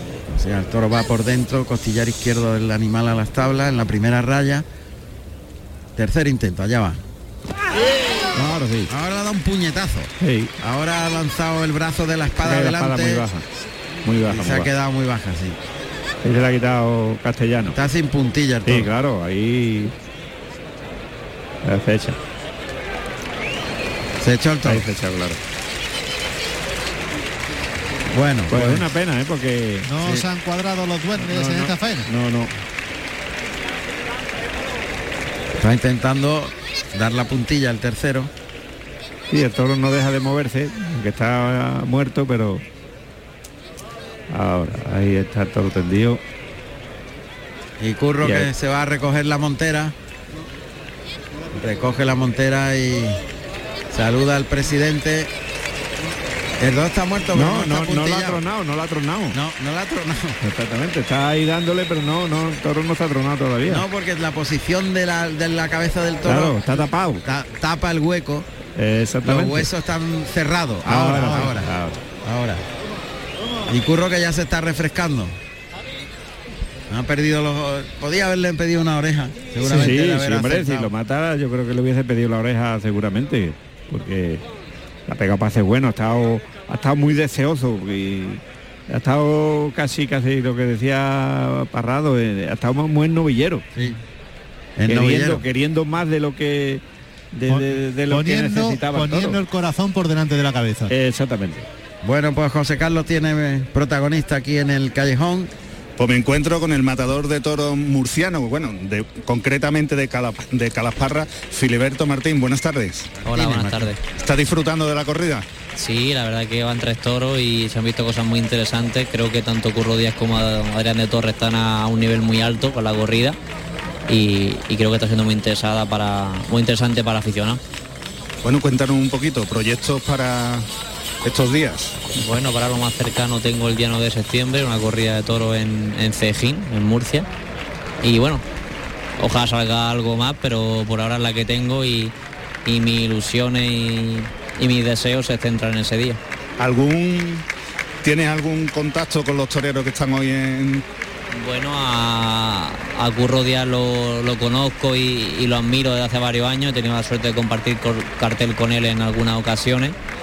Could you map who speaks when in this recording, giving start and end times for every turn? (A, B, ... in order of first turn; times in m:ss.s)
0:00.3-0:04.6 A
0:06.0-0:07.0 A
0:08.3-0:08.9 B
0:08.9-0:13.2 A
0:10.2-0:10.5 B
0:12.4-0:13.4 B
0:14.0-0:14.7 B
0:14.3-0:15.6 A
0:16.2-0:17.8 B
0:17.7-0:18.9 A
0:18.6-0:19.9 B
0:21.6-0:22.2 B
0:24.2-0:24.9 A
0:24.6-0:25.4 B
0:28.1-0:28.9 A
0:28.5-0:29.9 B
0:29.8-0:32.1 C
0:31.2-0:32.5 B
0:35.6-0:38.3 A
0:39.3-0:42.6 B
0:44.3-0:46.2 B
0:47.8-0:49.9 A
0:48.2-0:48.5 B
0:51.5-0:53.2 A
0:53.9-0:55.3 A
0:56.6-0:58.4 A
0:57.3-0:59.4 B
0:59.3-1:00.4 A
1:00.4-1:03.8 B
1:03.6-1:06.7 A
1:06.2-1:07.2 B
1:07.2-1:08.5 A
1:08.8-1:09.7 B
1:09.2-1:12.6 A
1:10.8-1:12.0 B
1:11.2-1:11.5 C
1:13.7-1:15.4 A
1:16.9-1:20.9 A
1:19.6-1:24.4 B
1:25.1-1:33.6 B
1:34.8-1:35.4 A
1:34.9-1:39.4 B
1:37.5-1:40.9 C
1:40.9-1:41.6 B
1:42.0-1:45.5 A
1:46.0-1:53.1 D
1:53.2-1:53.9 A
1:53.2-1:54.0 E
1:54.1-1:55.4 D
1:55.7-2:03.4 E
2:04.1-2:07.6 E
2:08.4-2:10.7 D
2:11.2-2:12.0 D
2:12.2-2:17.3 E
2:18.0-2:18.4 E
2:19.2-2:22.1 E
2:22.6-2:26.2 E
2:26.6-2:27.4 D
2:28.0-2:30.8 D
2:31.3-2:40.0 E